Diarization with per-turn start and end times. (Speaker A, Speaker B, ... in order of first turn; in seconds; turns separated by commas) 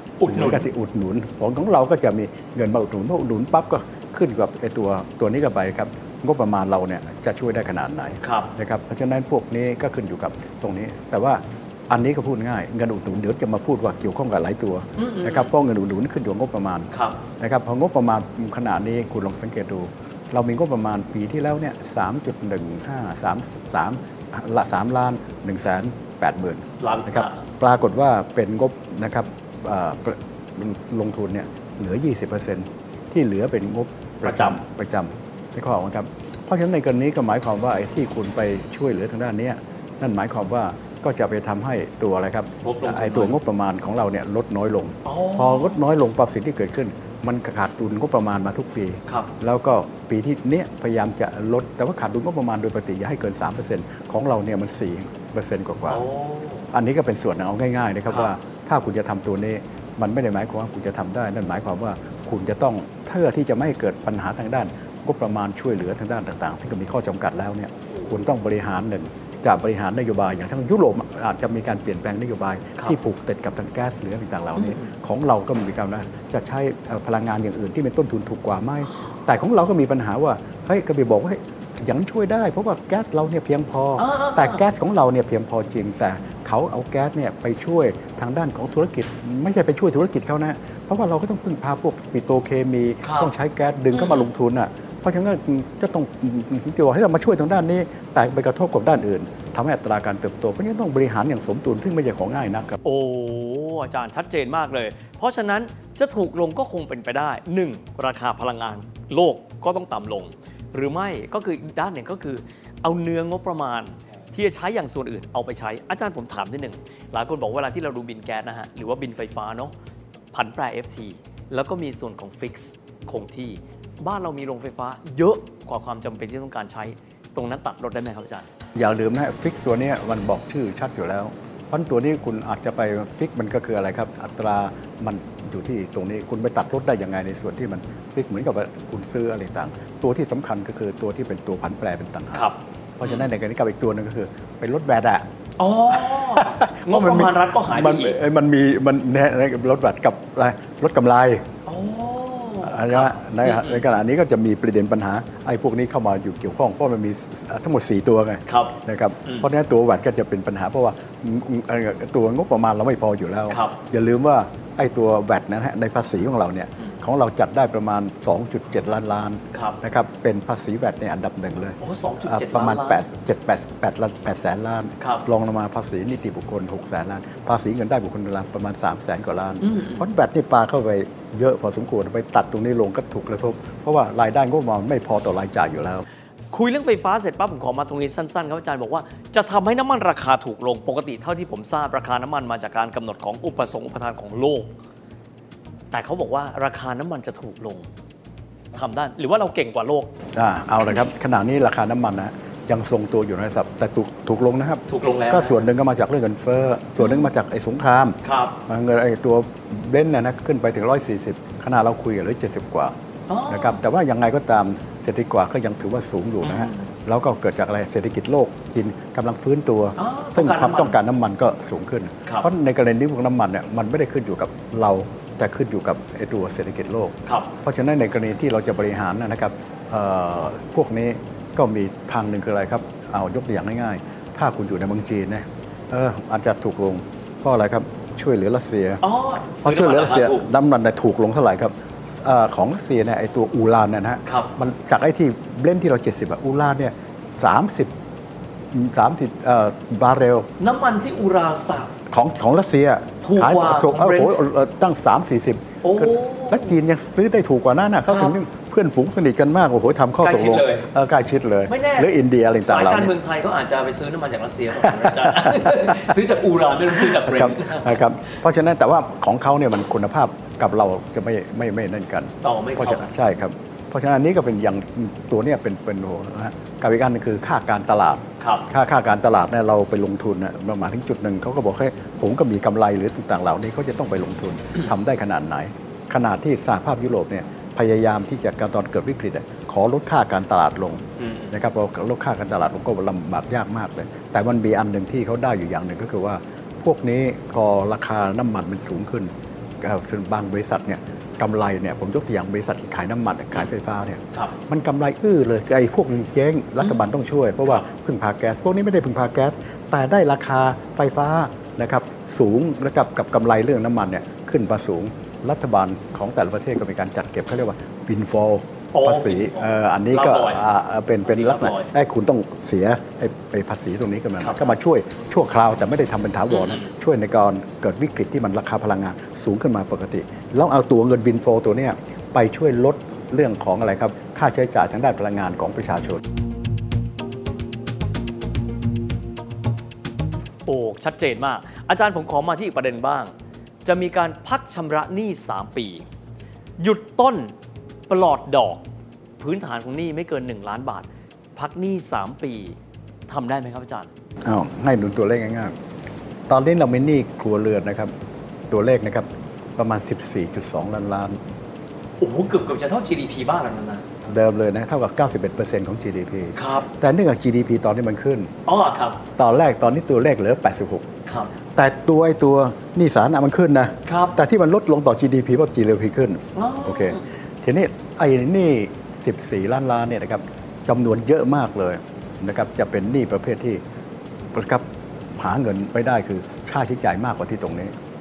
Speaker A: 0.2-0.7, Speaker B: 0.3-56.0, Speaker A: 8.2-8.5, Speaker A: 15.0-15.5, Speaker A: 16.9-17.2, Speaker A: 26.8-27.4, Speaker A: 34.2-34.6, Speaker A: 42.6-43.4, Speaker A: 45.0-45.8, Speaker A: 55.9-56.7, Speaker B: 56.7-102.8, Speaker A: 74.6-74.9, Speaker A: 84.0-84.6, Speaker A: 93.0-93.3, Speaker A: 93.9-94.3, Speaker A: 102.8-119.7, Speaker A: 120.3-128.5, Speaker B: 128.8-142.5, Speaker A: 142.3-143.3, Speaker B: 143.0-145.3, Speaker A: 145.6-148.2, Speaker B: 145.9-151.4, Speaker A: 151.7-153.8, Speaker B: 152.6-186.1, Speaker A: 158.5-159.5, Speaker A: 163.5-163.8, Speaker A: 169.5-169.8, Speaker A: 171.8-173.1, Speaker A: 175.0-175.3, Speaker A: 179.6-180.1, Speaker A: 186.5-194.7, Speaker A: 195.9-197.9, Speaker A: 198.7-200.1, Speaker B: 200.3-208.2, Speaker A: 204.9-205.6, Speaker A: 207.0-207.3, Speaker A: 208.2-208.6, Speaker B: 208.7-212.9, Speaker A: 213.3-213.8, Speaker B: 213.5-239.0, Speaker A: 216.4-216.8, Speaker A: 220.0-221.0, Speaker A: 227.3-227.5, Speaker A: 239.0-240.5, Speaker B: 239.6-247.9, Speaker A: 244.3-244.5, Speaker B: 248.7-250.5, Speaker A: 250.6-251.9, Speaker B: 252.1-263.1, Speaker A: 253.2-254.4, Speaker A: 255.8-256.8, Speaker A: 258.1-258.4, Speaker A: 260.2-260.9, Speaker A: 261.7-268.0, Speaker B: 264.8-266.1, Speaker B: 266.9-299.3, Speaker A: 272.4-273.1, Speaker A: 278.4-278.7, Speaker A: 291.2-291.5, Speaker B: 299.8-336.2, Speaker A: 318.9-320.6, Speaker A: 321.2-321.9, Speaker A: 324.4-324.8, Speaker A: 326.5-326.9, Speaker A: 340.7-343.3, Speaker A: 343.9-346.1, Speaker A: 346.8-347.5, Speaker A: 348.1-348.8, Speaker A: 349.4-354.1, Speaker B: 354.4-355.8, Speaker B: 356.5-358.1, Speaker B: 358.7-361.4, Speaker A: 362.2-364.0, Speaker B: 364.3-368.5, Speaker A: 366.6-366.9, Speaker A: 368.7-369.2, Speaker B: 369.4-371.1, Speaker A: 371.3-371.5, Speaker B: 371.8-383.8, Speaker A: 374.1-374.4, Speaker A: 376.6-377.2, Speaker B: 384.5-387.9